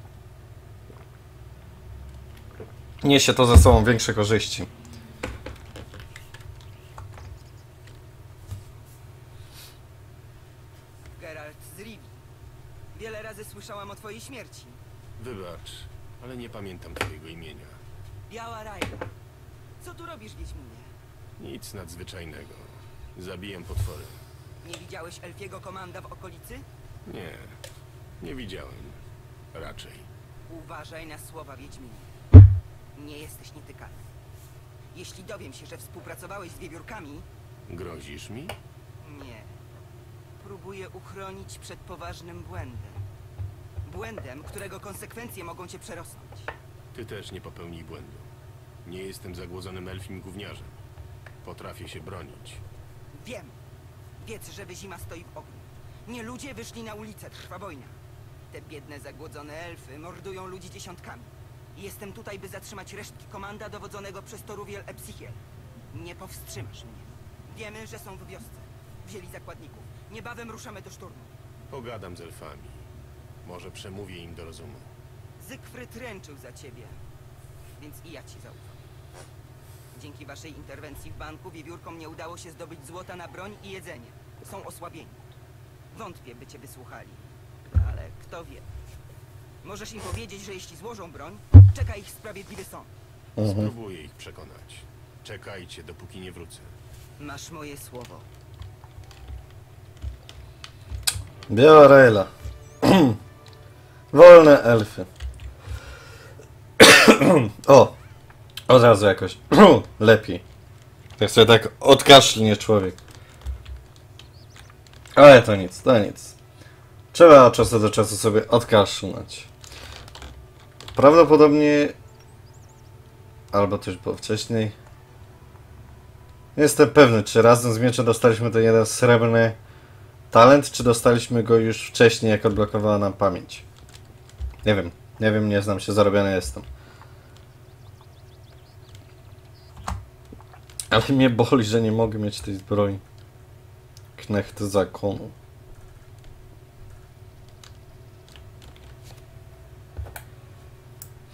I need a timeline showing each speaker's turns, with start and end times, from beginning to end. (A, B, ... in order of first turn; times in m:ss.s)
0:03.0-0:04.7 A
0:11.1-0:12.2 B
0:12.9-0:14.8 B
0:15.2-0:17.8 C
0:18.3-0:19.1 B
0:19.8-0:20.9 B
0:21.4-0:24.2 C
0:24.6-0:26.6 B
0:27.0-0:27.6 C
0:28.2-0:29.0 C
0:29.5-0:30.1 C
0:30.5-0:32.1 B
0:33.0-0:34.0 B
0:34.9-0:37.2 B
0:37.7-0:38.5 C
0:39.0-0:39.5 B
0:40.4-0:43.0 B
0:43.8-0:46.5 B
0:46.9-0:48.3 C
0:48.8-0:50.8 C
0:51.4-0:52.6 C
0:53.1-0:53.5 B
0:54.2-0:57.9 B
0:58.5-1:05.4 B
1:05.9-1:11.3 B
1:11.7-1:12.9 C
1:13.4-1:14.9 C
1:15.4-1:17.0 B
1:17.8-1:18.8 B
1:19.9-1:25.2 B
1:25.9-1:28.6 B
1:29.6-1:32.9 B
1:33.4-1:33.7 A
1:33.4-1:36.7 C
1:37.2-1:38.3 B
1:41.5-1:43.2 A
1:44.1-1:45.1 A
1:46.8-1:47.9 A
1:48.7-1:50.4 A
1:51.2-1:53.0 A
1:55.1-1:56.4 A
1:57.1-1:59.5 A
2:00.9-2:01.9 A
2:03.5-2:04.7 A
2:06.6-2:09.6 A
2:10.3-2:13.6 A
2:14.6-2:16.6 A
2:20.9-2:23.0 A
2:24.2-2:25.3 A